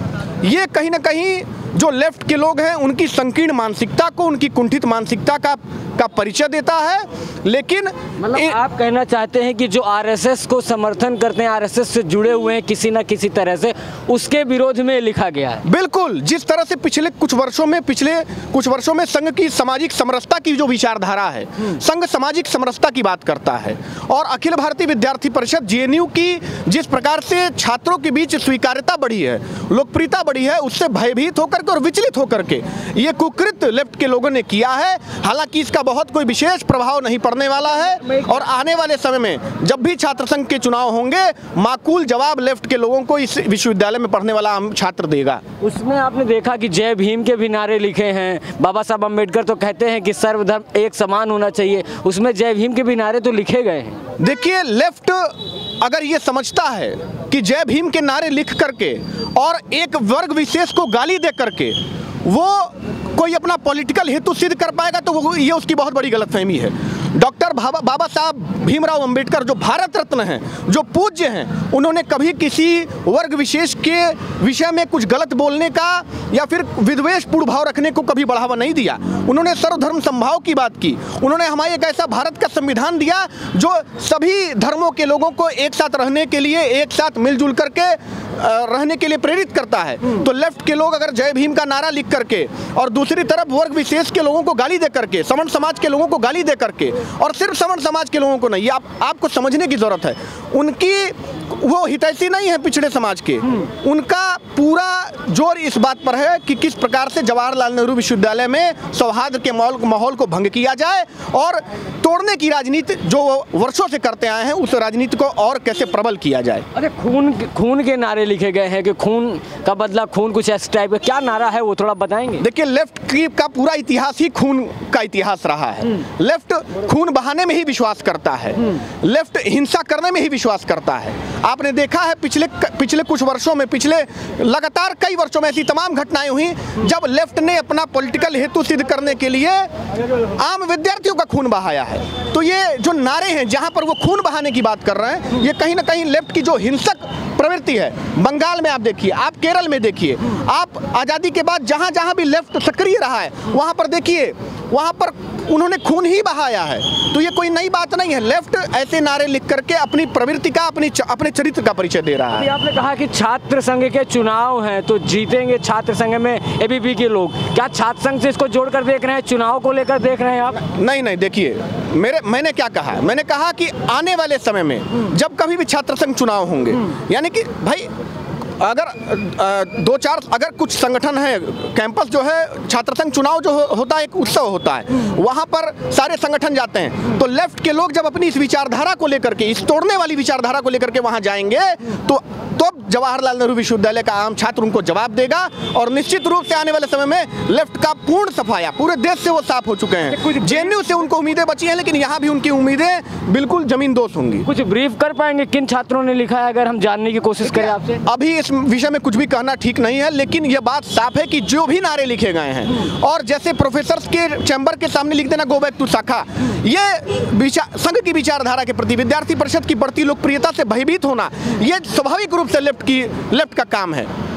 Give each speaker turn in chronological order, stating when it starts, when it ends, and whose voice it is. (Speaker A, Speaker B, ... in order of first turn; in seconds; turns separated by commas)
Speaker A: 0.4-8.6, Speaker B: 8.2-15.6, Speaker A: 15.7-45.4, Speaker B: 45.6-54.0, Speaker A: 54.2-116.7, Speaker B: 116.7-122.5, Speaker A: 122.4-139.7, Speaker A: 140.3-162.5, Speaker B: 162.3-170.6, Speaker A: 170.8-177.9, Speaker A: 178.6-204.5, Speaker B: 204.4-208.0, Speaker A: 207.5-224.1